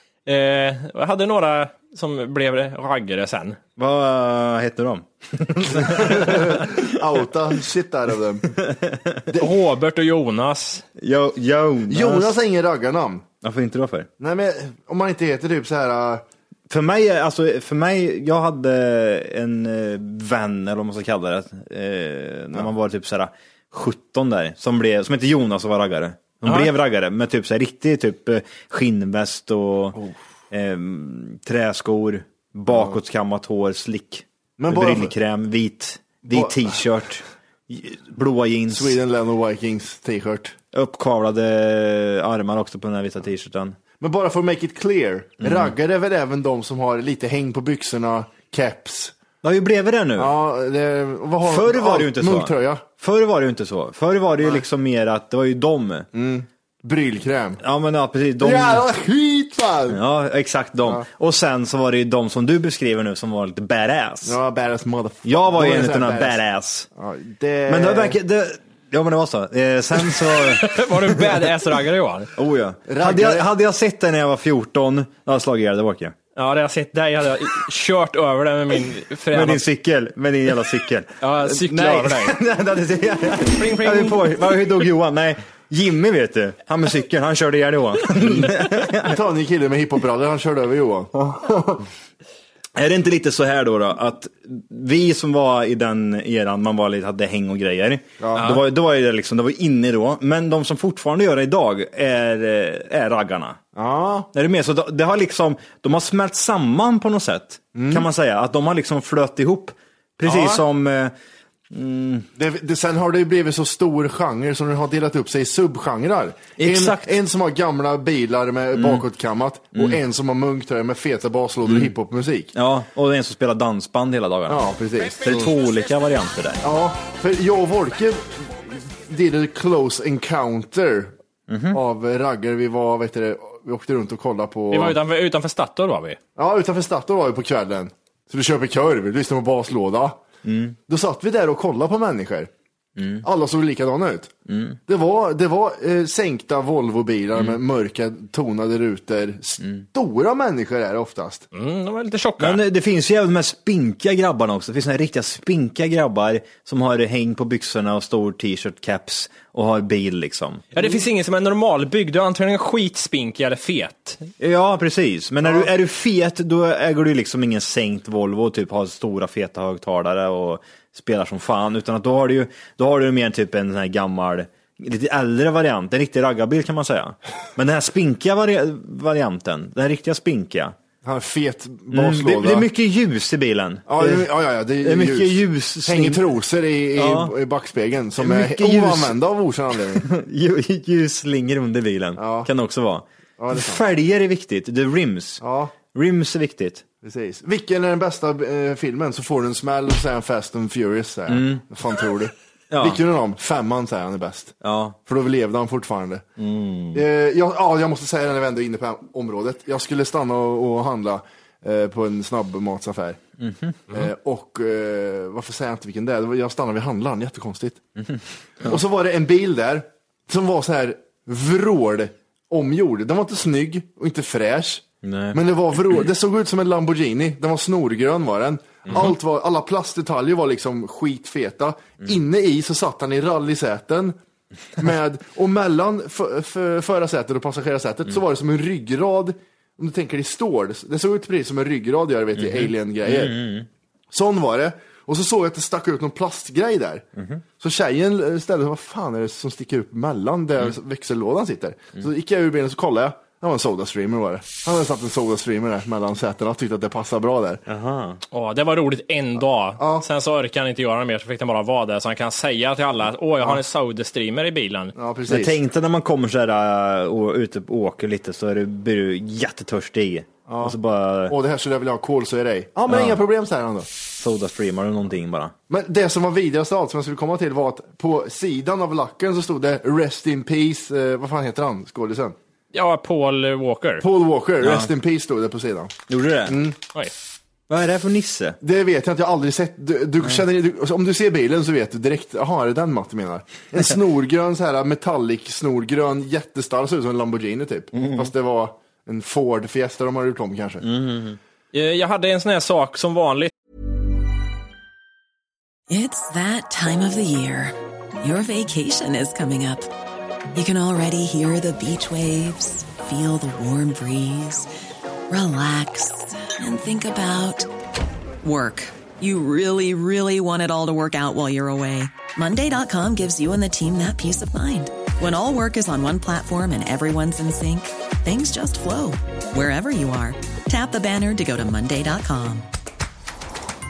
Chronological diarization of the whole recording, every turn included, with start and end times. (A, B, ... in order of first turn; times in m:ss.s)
0:00.3-0:03.6 A
0:03.8-0:06.9 B
0:05.8-0:08.6 C
0:08.6-0:09.2 B
0:09.4-0:10.8 A
0:11.0-0:12.4 B
0:11.9-0:13.3 C
0:13.4-0:14.1 B
0:14.2-0:16.2 C
0:16.7-0:30.0 B
0:26.4-0:26.7 A
0:30.5-0:39.0 B
0:32.7-0:33.0 C
0:34.6-0:35.1 C
0:36.3-0:36.8 C
0:38.7-0:40.6 C
0:40.7-0:43.8 B
0:44.0-0:49.1 C
0:45.4-0:45.8 B
0:49.4-0:50.4 B
0:50.2-0:52.8 C
0:51.4-0:56.1 B
0:56.1-0:57.6 C
0:57.6-0:58.9 B
0:58.4-1:00.0 C
0:59.9-1:04.4 B
1:04.2-1:06.4 C
1:05.2-1:06.9 B
1:07.0-1:08.2 C
1:07.7-1:11.5 B
1:10.4-1:12.3 A
1:12.4-1:16.2 B
1:12.9-1:13.5 C
1:16.4-1:19.6 A
1:19.3-1:29.2 B
1:21.2-1:22.4 A
1:23.4-1:24.7 A
1:28.2-1:31.8 C
1:32.8-1:43.6 B
1:38.2-1:38.6 C
1:43.8-1:44.3 C
1:44.3-1:51.1 B
1:47.8-1:48.1 C
1:50.3-1:50.6 C
1:51.7-1:52.3 B
1:52.4-2:02.5 C
1:56.6-1:57.2 B
1:58.7-1:59.0 B
1:59.8-2:00.0 B
2:01.6-2:02.0 B
2:02.5-2:04.6 B
2:04.5-2:05.5 C
2:05.2-2:06.6 B
2:06.6-2:11.1 C
2:11.5-2:11.8 B
2:11.7-2:15.0 C
2:14.7-2:16.2 A
2:16.4-2:20.2 C
2:20.4-2:20.8 B
2:20.9-2:22.5 C
2:23.0-2:23.2 B
2:23.2-2:24.3 C
2:24.5-2:24.8 B
2:24.9-2:31.4 C
2:27.4-2:27.6 B
2:31.5-2:32.6 A
2:32.4-2:40.7 B
2:40.7-2:44.2 A
2:44.4-3:00.8 B
3:01.0-3:02.7 C
3:01.9-3:06.2 B
3:03.9-3:10.1 C
3:07.0-3:07.3 B
3:08.2-3:09.2 B
3:10.0-3:15.4 B
3:12.2-3:12.5 C
3:13.4-3:13.8 C
3:15.4-3:15.8 C
3:15.9-3:16.8 B
3:17.0-3:26.2 C
3:21.3-3:21.6 B
3:22.7-3:23.0 B
3:24.6-3:25.0 B
3:26.4-3:27.0 B
3:26.9-3:33.2 C
3:33.4-3:33.8 B
3:33.9-3:37.8 C
3:38.0-3:38.8 B
3:38.6-3:54.2 C
3:45.0-3:45.4 B
3:48.9-3:49.1 B
3:54.8-4:03.4 C
4:02.4-4:03.7 B
4:04.1-4:07.1 C
4:07.2-4:07.4 B
4:07.6-4:17.6 C
4:17.7-4:18.2 B
4:18.3-4:24.9 A
4:19.8-4:20.0 C
4:25.0-4:25.6 C
4:25.3-4:31.4 B
4:30.5-4:30.8 C
4:31.3-4:33.9 C
4:32.9-4:33.2 B
4:34.1-4:35.6 B
4:35.7-4:42.4 C
4:42.7-4:44.0 A
4:44.0-4:46.0 C
4:44.6-4:44.9 B
4:46.1-4:46.6 B
4:46.5-4:46.8 C
4:47.7-4:48.6 B
4:48.6-5:00.9 C
4:58.0-4:58.3 B
5:00.8-5:01.4 B
5:01.7-5:03.5 A
5:05.9-5:09.9 D
5:10.5-5:14.7 D
5:15.3-5:17.7 D
5:18.4-5:32.7 D